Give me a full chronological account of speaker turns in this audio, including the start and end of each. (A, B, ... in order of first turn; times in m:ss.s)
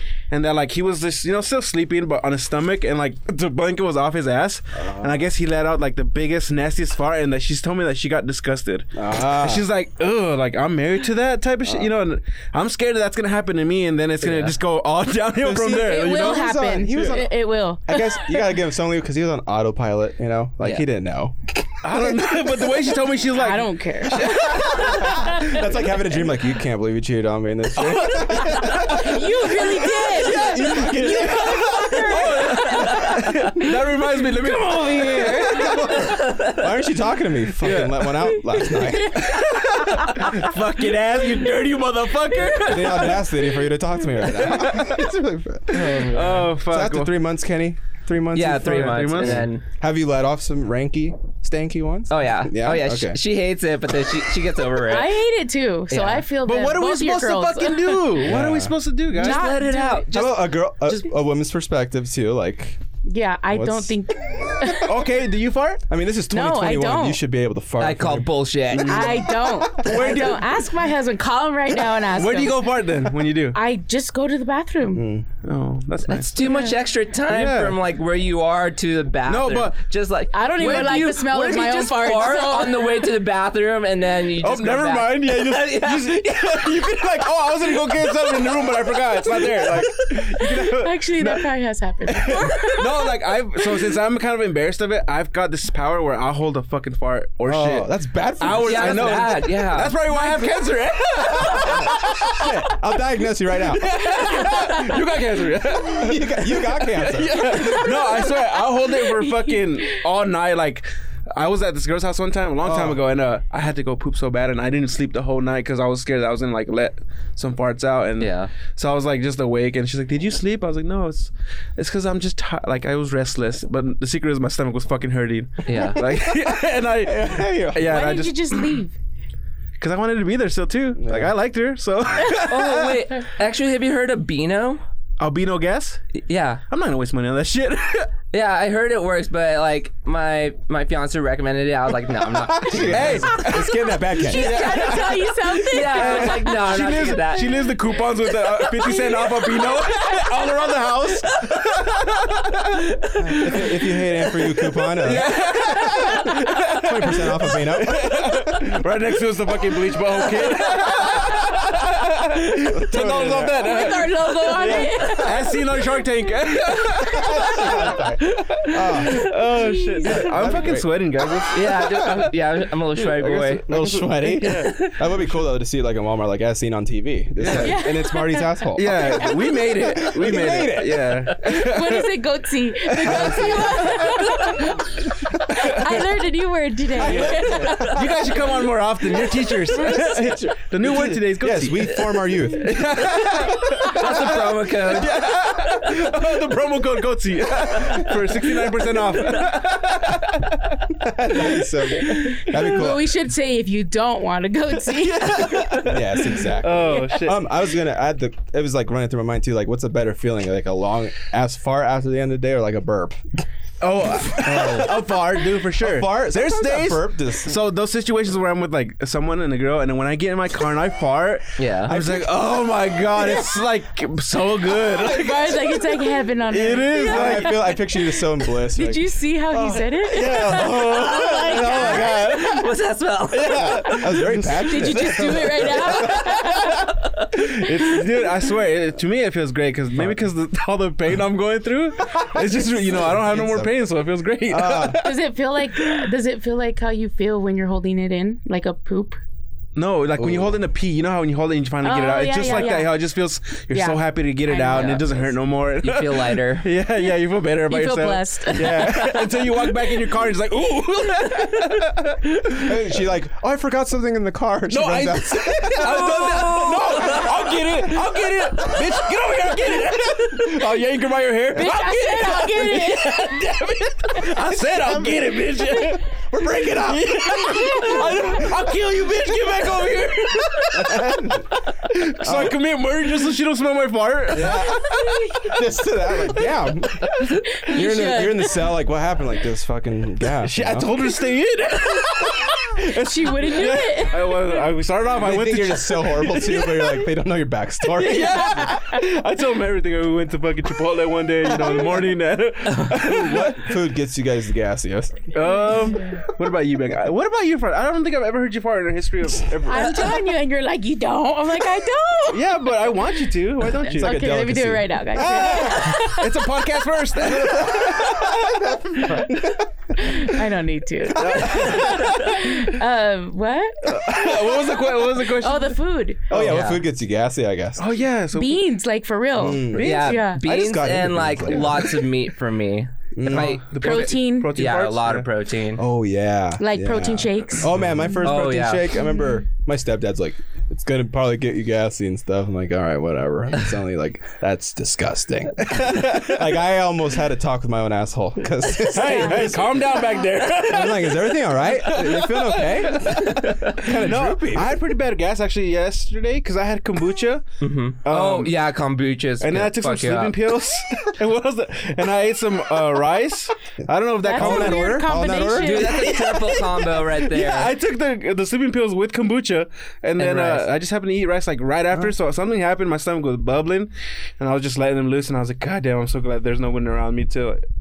0:00.3-0:16.4 A
0:04.8-0:05.2 B
0:09.0-0:09.7 B
0:11.6-0:11.9 B
0:14.2-0:14.6 C
0:15.4-0:17.3 B
0:15.8-0:18.6 D
0:17.9-0:22.8 B
0:21.8-0:25.7 A
0:23.3-0:25.6 D
0:24.2-0:29.3 B
0:27.8-0:36.1 A
0:28.7-0:33.2 D
0:30.2-0:31.9 B
0:32.7-0:33.3 C
0:34.5-0:35.8 D
0:35.4-0:39.4 B
0:35.7-0:36.6 C
0:37.6-0:38.2 A
0:39.0-0:43.2 A
0:42.6-0:53.2 B
0:42.8-0:43.1 C
0:44.4-0:45.0 A
0:45.7-0:46.5 C
0:45.8-0:47.1 A
0:48.3-0:49.6 C
0:48.6-0:49.5 A
0:52.1-0:55.2 C
0:54.8-0:58.3 D
0:55.9-0:56.3 C
0:56.4-0:59.5 A
0:58.2-0:58.8 B
0:59.1-1:00.4 C
0:59.1-1:01.0 D
1:00.1-1:02.8 B
1:03.1-1:04.9 D
1:03.5-1:04.8 B
1:04.8-1:05.8 A
1:05.9-1:10.2 B
1:06.3-1:07.2 D
1:07.8-1:09.2 C
1:08.7-1:09.1 A
1:08.9-1:12.8 D
1:09.7-1:10.6 A
1:12.1-1:13.6 A
1:13.5-1:15.1 D
1:14.9-1:15.3 B
1:15.4-1:16.6 A
1:16.1-1:29.6 C
1:17.3-1:17.8 A
1:19.3-1:19.8 A
1:20.3-1:23.1 D
1:20.6-1:21.9 A
1:24.4-1:31.5 A
1:30.6-1:33.1 D
1:32.1-1:37.9 A
1:37.5-1:39.4 B
1:38.4-1:42.6 A
1:38.6-1:40.4 C
1:40.2-1:40.4 D
1:41.5-1:43.8 B
1:43.6-2:08.8 A
1:44.2-1:45.0 D
1:45.9-1:48.0 B
1:47.3-1:49.9 D
1:52.6-1:53.0 B
1:58.2-1:58.5 C
2:05.7-2:06.0 C
2:06.1-2:08.0 B
2:07.9-2:09.0 D
2:09.8-2:13.0 A
2:11.0-2:11.3 B
2:12.3-2:14.8 C
2:15.2-2:16.0 A
2:16.2-2:16.6 C
2:16.7-2:18.1 A
2:18.3-2:23.4 C
2:22.3-2:24.9 B
2:22.9-2:33.7 A
2:24.2-2:26.6 D
2:25.6-2:27.8 C
2:28.8-2:30.2 D
2:33.2-2:35.3 B
2:35.0-2:48.1 A
2:35.7-2:36.3 C
2:36.1-2:38.6 B
2:40.1-2:41.4 C
2:42.7-2:43.9 B
2:43.5-2:45.6 D
2:44.7-2:45.3 C
2:47.0-2:49.3 B
2:48.8-2:52.3 A
2:49.5-2:50.3 D
2:50.0-2:50.9 B
2:51.5-2:53.7 C
2:53.0-2:54.9 A
2:53.6-3:01.3 B
2:54.4-2:54.9 C
2:57.4-2:57.8 A
2:57.6-3:00.0 D
2:58.8-3:02.1 A
3:01.4-3:08.0 D
3:03.0-3:04.0 B
3:03.0-3:03.9 A
3:05.3-3:05.7 B
3:06.9-3:08.4 B
3:07.0-3:20.8 A
3:09.7-3:13.3 B
3:13.7-3:15.2 C
3:14.0-3:14.2 B
3:21.0-3:23.2 B
3:22.1-3:22.6 A
3:22.3-3:25.5 D
3:24.9-3:27.4 A
3:25.8-3:33.2 B
3:33.8-3:45.8 A
3:34.2-3:37.6 B
3:41.6-3:41.9 C
3:41.9-3:43.4 B
3:45.0-3:48.1 D
3:46.5-3:47.7 A
3:47.0-3:52.3 B
3:48.7-3:52.0 D
3:50.0-3:52.6 A
3:51.0-3:54.2 C
3:53.3-3:56.2 A
3:53.5-3:56.5 B
3:53.9-3:56.9 D
3:57.3-4:05.2 A
4:00.0-4:00.2 B
4:02.1-4:03.8 B
4:04.5-4:05.0 B
4:05.0-4:09.2 D
4:09.8-4:22.8 A
4:10.2-4:10.6 B
4:11.8-4:13.0 D
4:13.7-4:15.0 D
4:14.7-4:15.1 C
4:15.8-4:16.7 C
4:17.7-4:19.2 D
4:18.7-4:19.2 C
4:22.6-4:28.0 B
4:24.7-4:36.0 A
4:25.8-4:27.6 C
4:31.5-4:33.4 D
4:34.5-4:38.7 B
4:36.9-4:45.6 A
4:37.6-4:38.2 D
4:40.7-4:41.5 B
4:42.2-4:42.6 B
4:44.3-4:50.9 B
4:45.1-4:45.5 D
4:47.5-4:48.7 D
4:50.4-4:56.8 A
4:52.8-4:54.6 D
4:55.1-4:58.8 B
4:57.9-5:03.7 A
4:58.6-4:58.9 D
5:01.5-5:01.9 B
5:02.9-5:05.3 B
5:05.3-5:10.2 A
5:09.6-5:13.2 D
5:12.3-5:14.2 A
5:13.8-5:16.5 D
5:13.9-5:15.5 B
5:15.2-5:19.3 A
5:17.3-5:20.2 B
5:20.0-5:26.3 D
5:21.1-5:22.0 B
5:21.1-5:22.6 A
5:23.9-5:25.8 A
5:26.3-5:27.9 B
5:26.3-5:26.6 A
5:26.4-5:26.8 C
5:27.8-5:28.6 A
5:28.3-5:30.4 D
5:29.4-5:32.0 B
5:29.4-5:30.2 A
5:29.8-5:35.8 C
5:33.2-5:33.6 B
5:33.3-5:35.3 A
5:33.8-5:34.6 D
5:35.8-5:54.8 B
5:36.6-5:37.7 D
5:38.2-5:39.0 C
5:45.6-5:46.6 A
5:48.6-5:57.4 A
5:49.0-5:49.4 D
5:57.6-6:00.4 C
5:58.0-5:58.5 A
5:59.4-6:05.0 A
6:04.2-6:06.0 D
6:04.3-6:05.9 B
6:05.6-6:07.8 C
6:05.8-6:17.6 A
6:10.2-6:10.7 C